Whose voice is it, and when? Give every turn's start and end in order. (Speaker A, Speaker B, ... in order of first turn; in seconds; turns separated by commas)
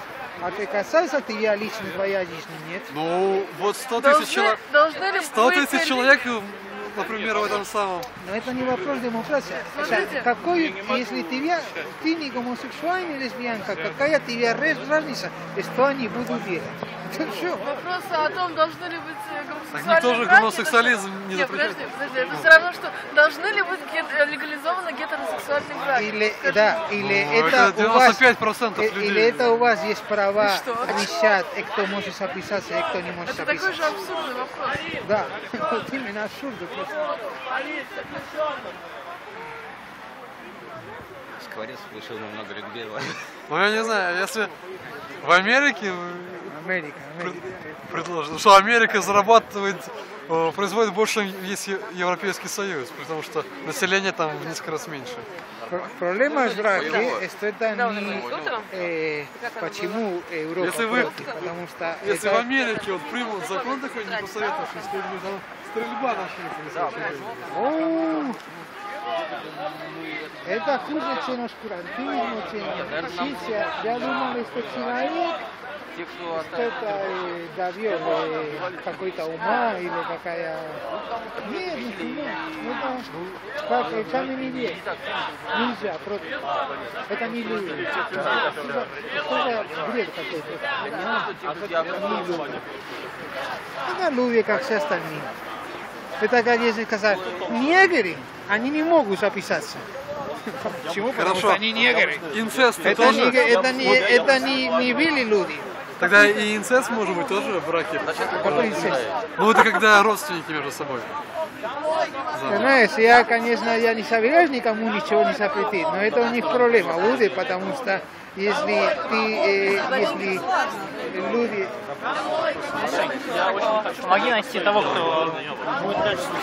Speaker A: 0.4-2.9, Speaker B: 2.9-8.1, Speaker C: 4.0-6.1, Speaker A: 8.2-17.7, Speaker C: 9.7-10.3, Speaker C: 17.6-26.8, Speaker B: 19.7-22.5, Speaker A: 25.9-28.2, Speaker B: 26.9-29.5, Speaker A: 28.8-33.9, Speaker C: 30.4-31.1, Speaker C: 33.3-34.9, Speaker A: 35.0-37.1, Speaker D: 41.4-43.3, Speaker B: 43.5-44.5, Speaker B: 45.2-46.5, Speaker A: 46.5-47.7, Speaker B: 47.2-55.3, Speaker A: 55.7-62.5, Speaker E: 56.5-56.8, Speaker D: 56.8-57.2, Speaker E: 57.7-58.7, Speaker B: 60.6-61.2, Speaker B: 62.0-67.5, Speaker A: 67.5-68.4, Speaker A: 70.4-75.4, Speaker A: 76.3-80.8, Speaker A: 81.4-83.1, Speaker A: 83.6-84.8, Speaker A: 85.5-86.3, Speaker A: 87.1-92.6, Speaker A: 93.9-95.3, Speaker A: 96.2-99.8, Speaker A: 100.6-102.2, Speaker B: 101.2-101.6, Speaker B: 102.3-103.4, Speaker A: 102.8-106.1, Speaker B: 106.0-111.1, Speaker D: 108.2-108.9, Speaker A: 108.2-109.0, Speaker B: 112.3-112.7, Speaker A: 112.5-120.5, Speaker A: 121.1-121.7, Speaker E: 123.7-124.7